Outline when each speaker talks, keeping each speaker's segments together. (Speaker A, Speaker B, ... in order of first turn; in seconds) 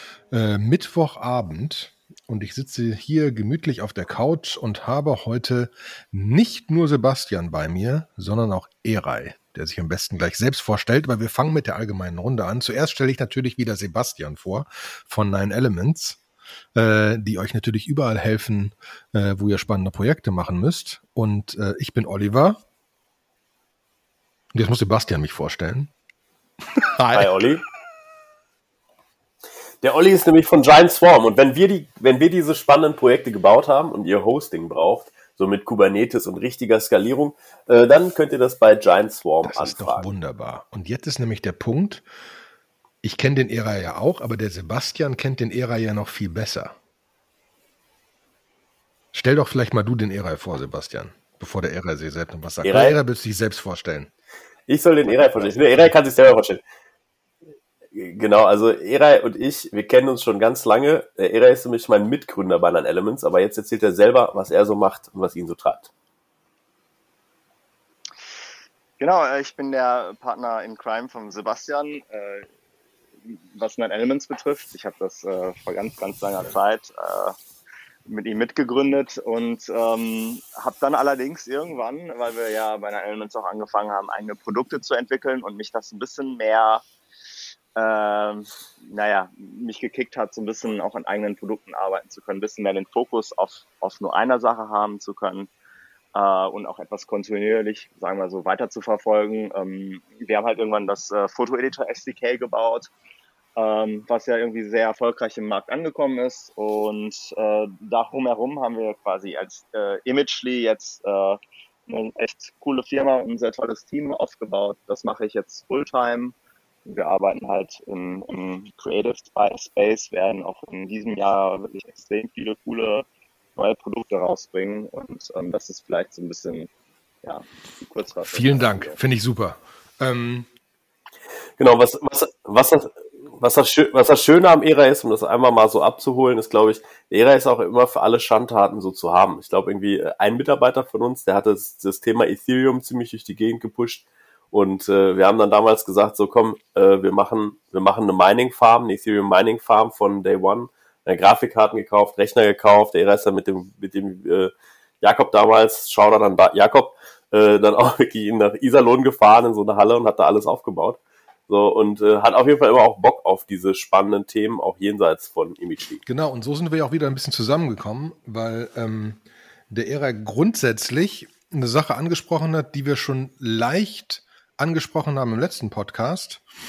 Speaker A: 0.3-16.2, 16.7-22.6, 24.5-25.9, 26.7-27.4, 39.4-42.0, 43.0-46.8, 49.1-54.1, 55.1-55.9, 128.3-130.5, 166.1-176.4
Speaker B: 27.1-27.6, 29.8-40.1, 52.6-53.0, 54.7-56.6, 57.9-65.9, 131.6-166.0
Speaker C: 69.0-72.5, 73.3-77.4, 78.1-86.8, 87.8-95.5, 96.2-102.9, 103.6-116.3, 116.9-126.7, 127.2-129.0